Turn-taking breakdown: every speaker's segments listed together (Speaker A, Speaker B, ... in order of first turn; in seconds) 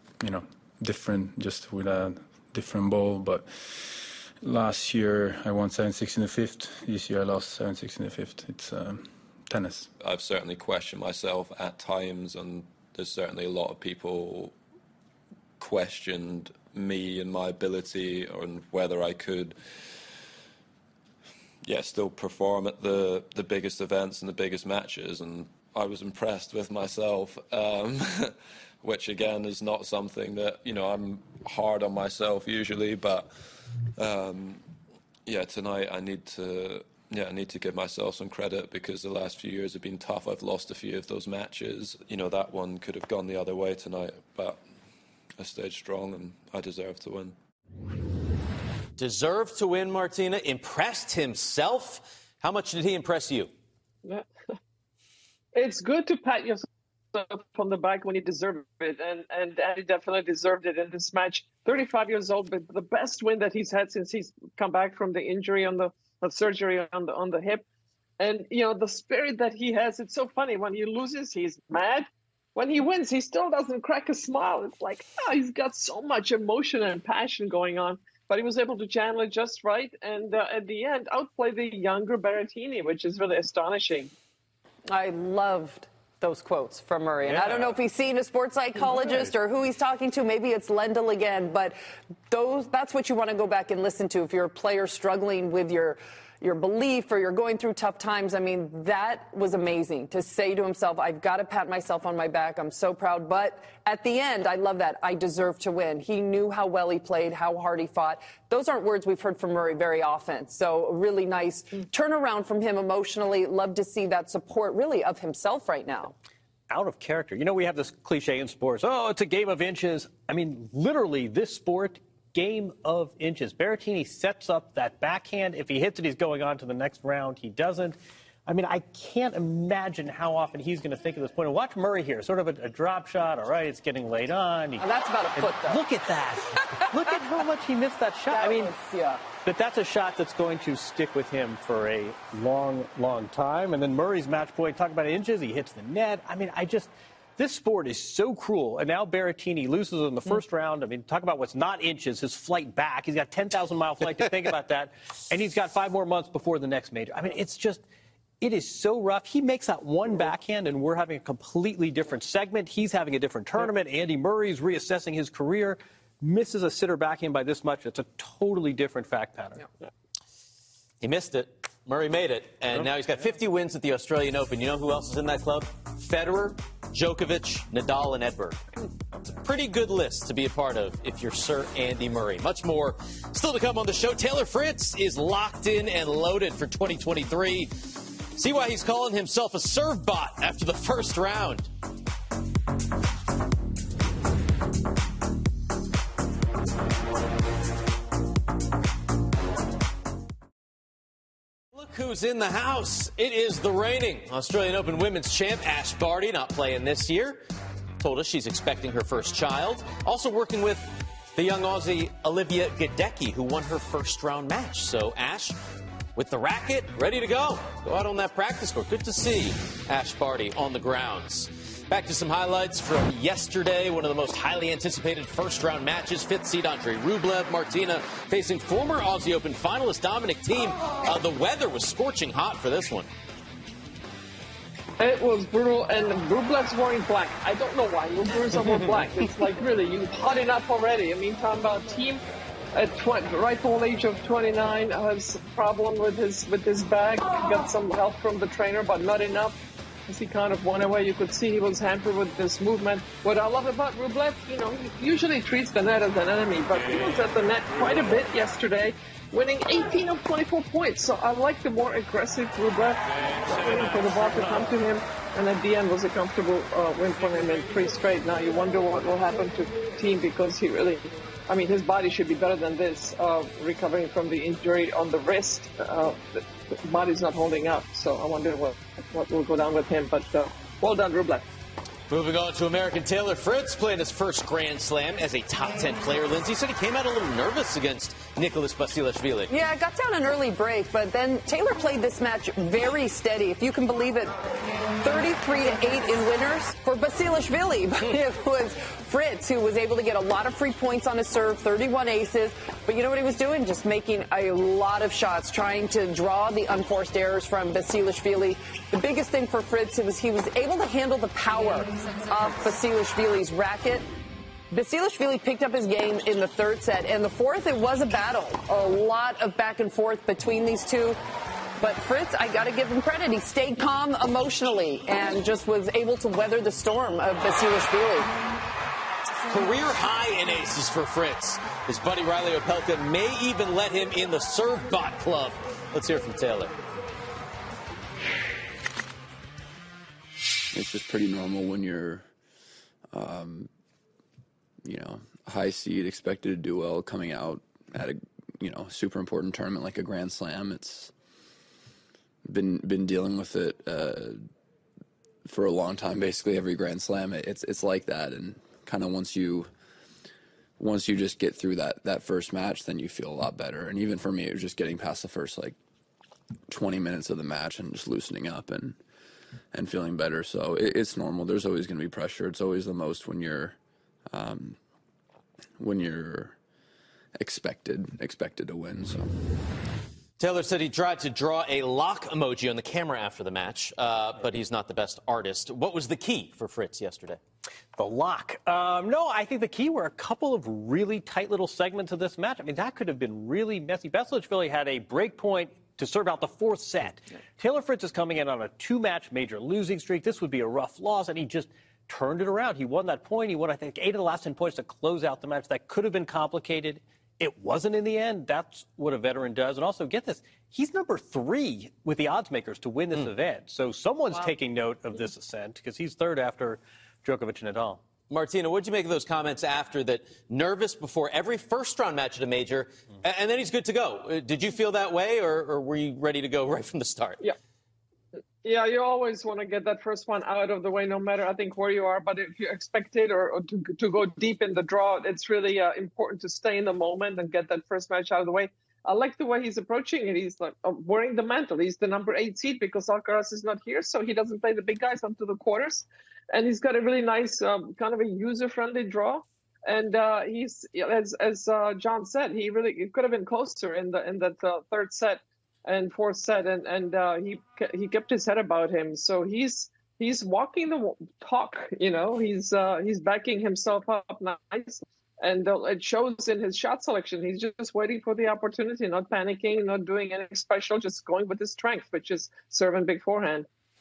Speaker A: 0.2-9.9
Speaker B: 10.0-14.6, 15.6-19.6, 21.6-33.3, 34.0-34.6, 35.3-44.6, 45.4-47.4
Speaker C: 49.0-53.5, 171.0-187.7, 188.3-191.7, 201.7-207.4, 208.0-215.6, 216.2-233.1, 282.1-289.5, 329.5-336.7, 380.4-387.4, 418.3-427.4
Speaker D: 55.5-67.6, 68.2-84.1, 235.0-242.2, 242.7-249.6, 250.1-281.4, 428.6-473.7
Speaker E: 84.9-91.8, 92.3-116.2, 134.8-135.8, 136.6-136.9, 138.3-139.2, 289.5-294.4, 295.0-314.1, 314.7-321.2, 321.8-328.3
Speaker F: 87.2-87.8, 88.8-89.3, 116.7-138.7, 139.4-157.8, 158.4-169.7, 388.0-418.0
Speaker G: 340.7-342.3, 343.1-343.7, 344.8-351.1, 352.5-354.5, 355.5-359.7, 360.8-365.8, 366.7-369.0, 369.7-373.8, 374.3-374.8, 375.8-376.6, 377.4-379.3